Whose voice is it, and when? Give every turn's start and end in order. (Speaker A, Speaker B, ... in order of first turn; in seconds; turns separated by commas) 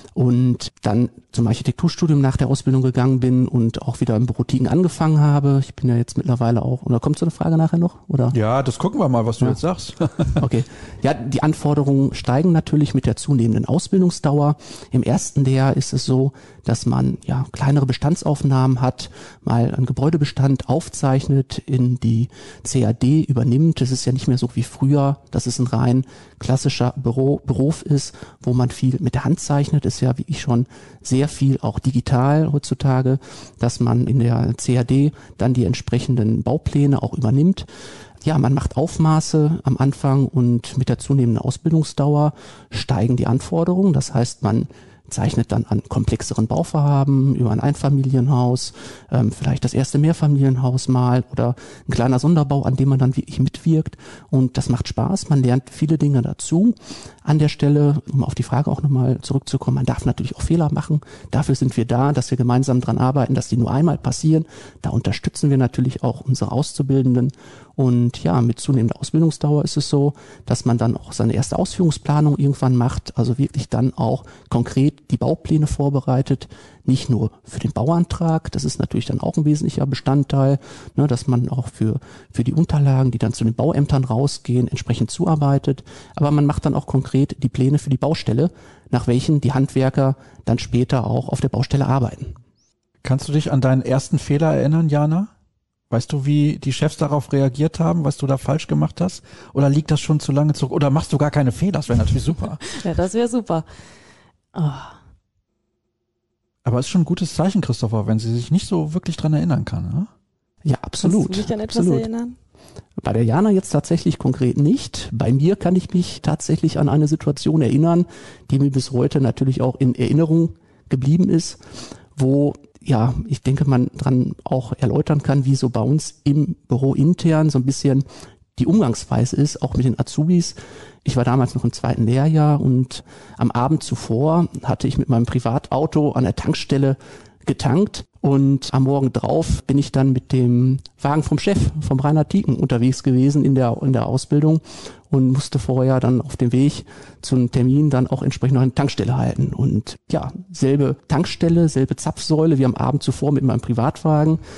Speaker A: 0.1-8.4, Speaker B: 8.3-10.4, Speaker A: 10.4-37.7, Speaker A: 38.2-92.3, Speaker B: 93.0-95.3, Speaker B: 95.9-102.7, Speaker C: 102.7-103.7, Speaker C: 104.5-105.0, Speaker B: 106.7-110.1, Speaker A: 110.6-112.0, Speaker C: 111.0-112.4, Speaker A: 113.0-121.6, Speaker A: 122.2-128.1, Speaker A: 128.6-154.4